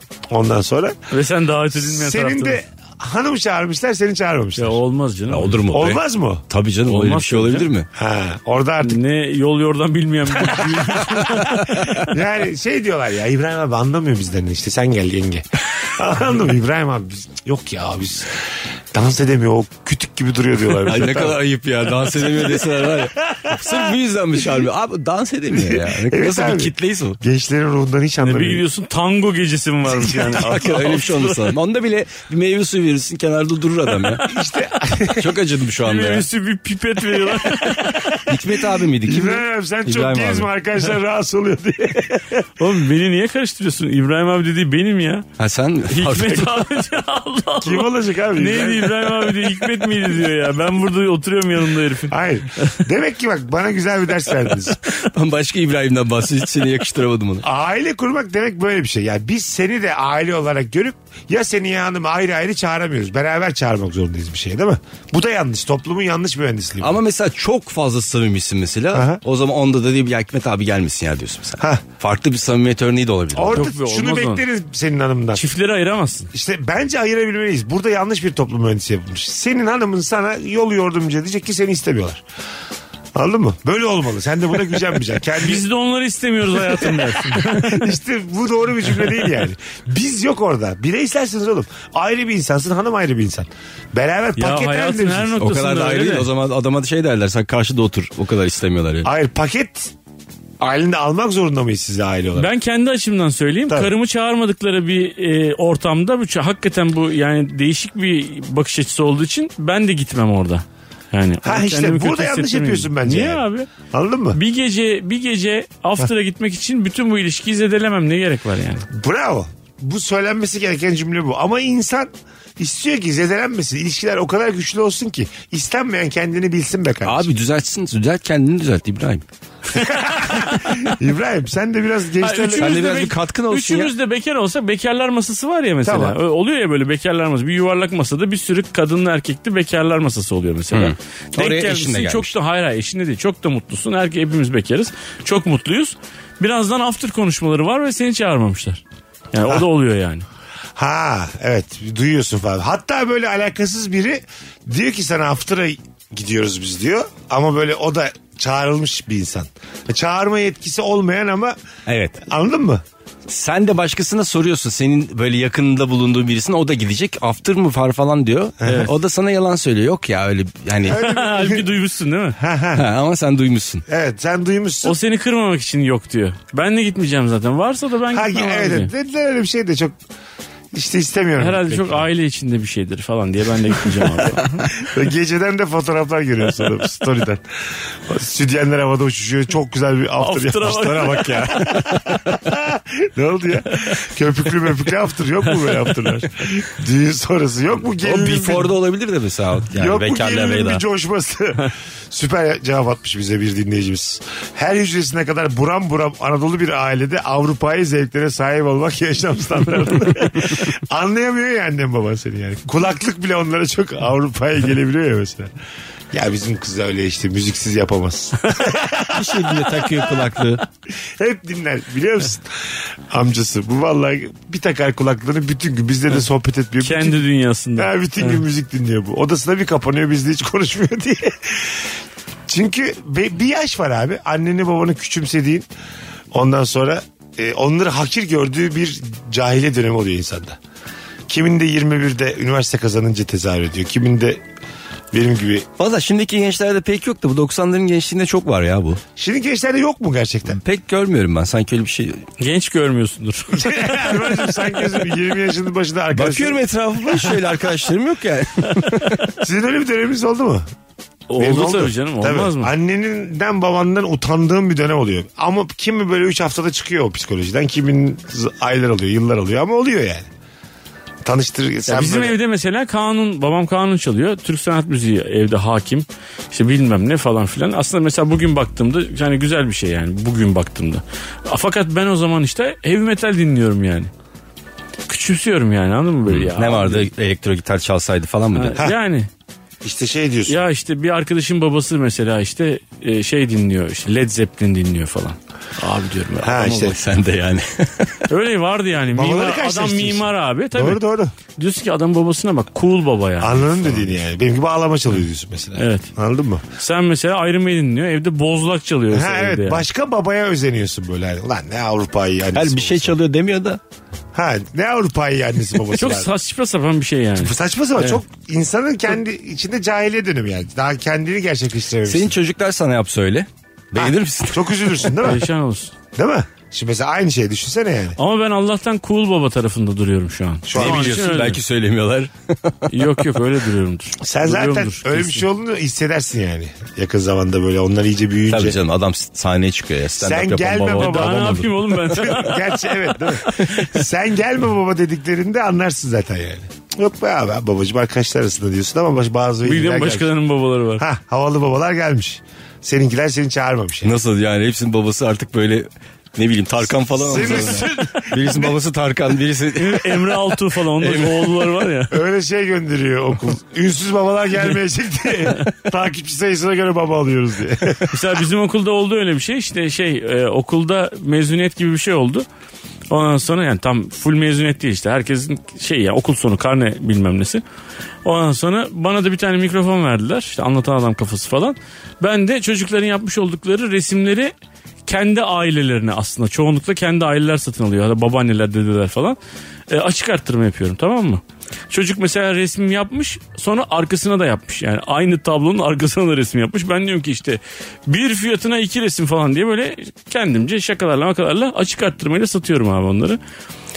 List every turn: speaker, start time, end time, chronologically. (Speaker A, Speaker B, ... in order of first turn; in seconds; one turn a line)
Speaker A: 0.3-1.0
Speaker B: 1.1-2.6
Speaker A: 1.8-4.8
Speaker B: 4.6-5.7
Speaker C: 5.3-7.9
Speaker A: 5.7-6.4
Speaker B: 6.9-7.7
Speaker A: 8.0-9.0
Speaker B: 8.8-12.1
Speaker A: 10.5-21.4
Speaker C: 20.8-27.2
Speaker A: 22.2-23.9
Speaker A: 25.6-28.6
Speaker B: 28.2-31.5
Speaker C: 30.1-34.2
Speaker A: 34.2-35.4
Speaker C: 35.1-36.3
Speaker B: 35.8-38.3
Speaker C: 38.2-40.5
Speaker A: 39.0-42.4
Speaker B: 42.6-45.3
Speaker C: 45.4-46.5
Speaker B: 45.9-52.8
Speaker A: 47.6-49.3
Speaker A: 52.1-54.8
Speaker C: 54.9-57.4
Speaker A: 57.4-67.0
Speaker C: 66.8-73.7
Speaker A: 68.9-69.2
Speaker A: 73.3-75.4
Speaker B: 73.5-74.4
Speaker B: 75.3-76.3
Speaker A: 76.3-82.2
Speaker A: 83.1-85.6
Speaker B: 85.4-87.9
Speaker A: 86.6-95.3
Speaker B: 94.3-96.3
Speaker C: 95.4-99.1
Speaker A: 99.0-99.9
Speaker A: 100.6-102.5
Speaker B: 102.3-113.7
Speaker A: 111.4-114.4
Speaker B: 114.3-118.9
Speaker A: 118.9-127.3
Speaker C: 127.0-129.2
Speaker A: 129.7-132.8
Speaker B: 129.8-130.9
Speaker B: 132.2-150.2
Speaker C: 132.5-133.9
Speaker A: 135.8-136.2
Speaker C: 140.7-142.3
Speaker A: 150.8-161.6
Speaker C: 161.9-162.2
Speaker A: 162.3-162.8
Speaker C: 163.3-171.0
Speaker A: 168.6-168.9
Speaker A: 170.9-171.7
Speaker B: 170.9-172.4
Speaker A: 172.4-172.8
Speaker C: 172.7-173.8
Speaker A: 173.9-174.9
Speaker B: 174.8-178.9
Speaker A: 178.1-179.9
Speaker A: 180.7-182.0
Speaker B: 181.4-184.7
Speaker A: 184.7-187.4
Speaker A: 188.1-198.7
Speaker B: 190.2-191.8
Speaker C: 190.7-192.1
Speaker C: 198.0-200.8
Speaker A: 199.7-215.5
Speaker A: 216.1-219.7
Speaker C: 219.1-220.6
Speaker A: 221.2-227.2
Speaker B: 226.8-228.4
Speaker A: 227.8-231.9
Speaker A: 232.5-235.7
Speaker A: 236.3-240.6
Speaker A: 241.3-244.4
Speaker A: 245.1-245.7
Speaker C: 245.8-249.0
Speaker A: 249.2-250.6
Speaker C: 250.5-252.2
Speaker B: 252.4-254.5
Speaker A: 253.5-256.6
Speaker C: 256.1-259.3
Speaker A: 259.3-260.6
Speaker B: 261.3-262.7
Speaker A: 261.4-270.3
Speaker A: 271.2-272.4
Speaker B: 271.9-284.1
Speaker B: 285.1-287.1
Speaker C: 286.3-288.8
Speaker B: 288.5-289.3
Speaker A: 289.8-290.6
Speaker B: 290.5-296.9
Speaker A: 296.4-297.0
Speaker C: 296.7-298.3
Speaker B: 298.3-301.0
Speaker A: 299.1-301.3
Speaker B: 301.6-304.2
Speaker A: 303.4-306.6
Speaker B: 305.8-306.1
Speaker B: 306.8-309.8
Speaker A: 309.1-313.1
Speaker C: 312.5-313.8
Speaker A: 314.3-316.3
Speaker B: 315.9-318.2
Speaker A: 317.4-322.3
Speaker C: 322.1-325.1
Speaker A: 323.9-325.4
Speaker B: 325.2-325.9
Speaker A: 326.1-328.2
Speaker B: 328.2-331.6
Speaker A: 330.6-331.2
Speaker C: 330.7-333.2
Speaker B: 332.9-335.5
Speaker A: 334.2-338.8
Speaker C: 338.5-342.3
Speaker A: 340.2-350.3
Speaker B: 340.9-343.0
Speaker B: 343.5-343.8
Speaker B: 349.6-351.0
Speaker A: 351.0-354.1
Speaker C: 354.0-361.7
Speaker A: 357.1-358.8
Speaker B: 359.7-362.1
Speaker A: 362.1-368.2
Speaker B: 368.1-372.4
Speaker B: 373.1-377.6
Speaker B: 378.2-384.5
Speaker B: 385.1-389.4
Speaker B: 389.9-403.4